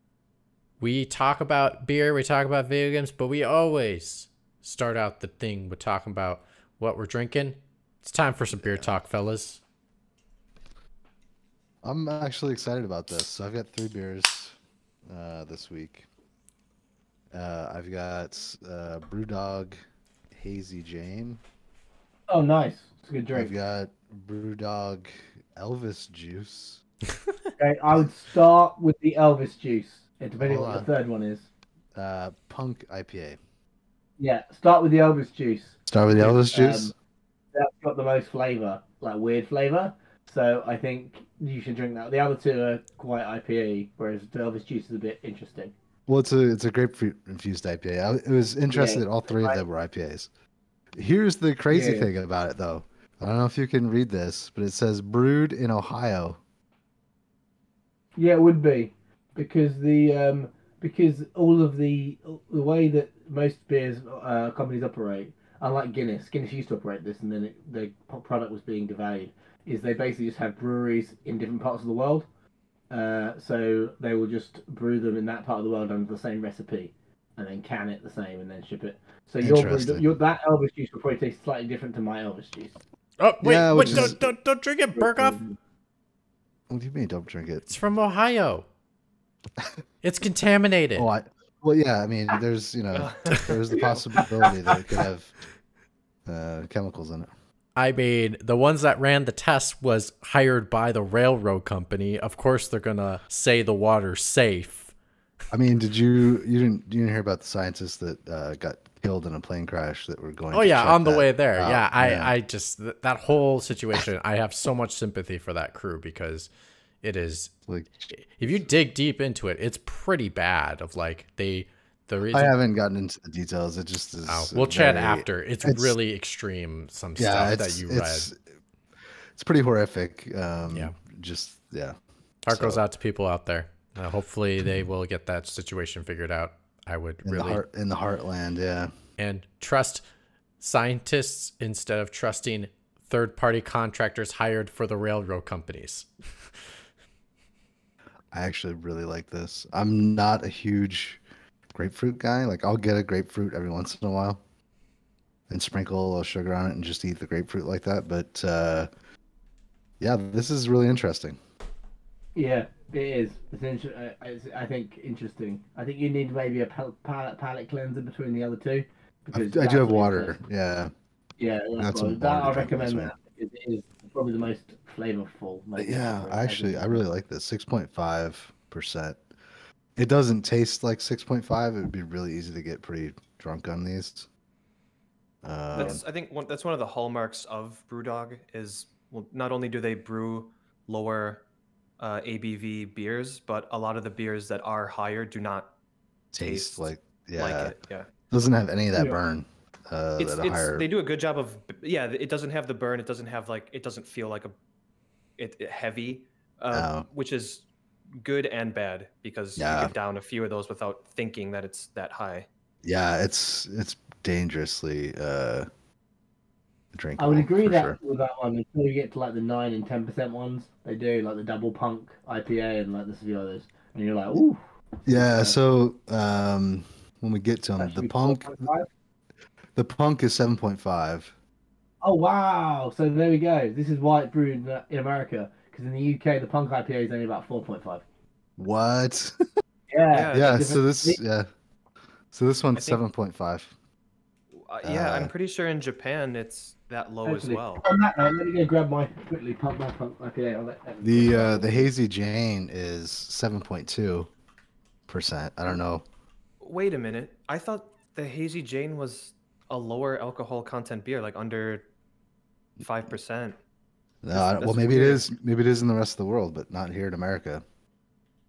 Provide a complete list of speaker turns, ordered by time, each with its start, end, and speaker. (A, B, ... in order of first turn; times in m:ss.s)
0:00.8-0:09.6 A
0:08.5-0:08.9 B
0:11.8-0:14.5 B
0:15.1-0:16.0 B
0:17.3-0:19.7 B
0:20.3-0:21.4 B
0:22.3-0:23.5 C
0:23.3-0:26.8 B
0:27.6-0:31.5 C
0:30.4-0:30.9 B
0:31.9-0:33.4 B
0:34.2-0:36.9 C
0:35.9-0:36.9 B
0:37.5-0:45.7 C
0:46.1-0:50.3 B
0:48.7-0:49.6 C
0:50.9-0:56.4 B
0:51.7-0:52.1 C
0:58.2-1:12.2 C
1:12.9-1:22.8 C
1:19.4-1:20.1 B
1:23.2-1:25.4 A
1:23.4-1:24.2 B
1:23.8-1:24.1 C
1:24.9-1:25.6 C
1:26.7-1:27.8 B
1:27.7-1:28.6 A
1:30.0-1:31.0 A
1:31.0-1:35.4 B
1:32.9-1:34.1 D
1:34.2-1:34.7 C
1:36.3-1:37.3 B
1:37.8-1:44.9 A
1:45.5-1:52.3 B
1:50.5-1:56.5 A
1:57.0-1:57.5 A
1:57.7-1:58.0 B
1:58.1-2:02.5 A
2:02.3-2:06.0 B
2:04.3-2:08.3 A
2:07.2-2:08.4 B
2:09.3-2:12.0 B
2:12.4-2:17.6 A
2:12.5-2:12.8 B
2:17.2-2:18.9 B
2:19.2-2:20.0 A
2:20.6-2:26.1 A
2:28.3-2:31.2 B
2:31.7-2:34.4 B
2:35.5-2:38.9 B
2:40.0-2:41.4 B
2:42.4-2:50.4 C
2:49.3-2:50.9 B
2:51.4-2:57.0 C
2:51.8-2:53.1 B
2:55.8-2:59.2 B
3:00.0-3:04.3 B
3:05.4-3:06.0 B
3:05.7-3:11.4 D
3:12.0-3:15.7 D
3:16.3-3:17.7 B
3:16.4-3:18.1 D
3:18.3-3:20.8 B
3:20.2-3:24.6 D
3:25.4-3:27.6 D
3:26.7-3:27.0 B
3:28.2-3:32.5 D
3:29.6-3:29.9 B
3:32.8-3:35.7 B
3:36.9-3:38.0 B
3:37.2-3:45.6 C
3:45.0-3:48.6 B
3:47.8-3:48.9 C
3:49.7-3:51.3 B
3:52.0-3:58.0 C
3:58.6-3:59.5 B
3:59.9-4:01.2 C
4:00.1-4:00.6 D
4:00.3-4:01.5 B
4:02.3-4:03.7 B
4:02.7-4:03.0 D
4:04.5-4:07.8 D
4:04.8-4:05.3 B
4:07.2-4:11.9 C
4:11.0-4:14.3 B
4:15.1-4:16.0 B
4:16.6-4:21.8 D
4:22.8-4:23.6 D
4:24.2-4:27.6 B
4:24.3-4:25.3 D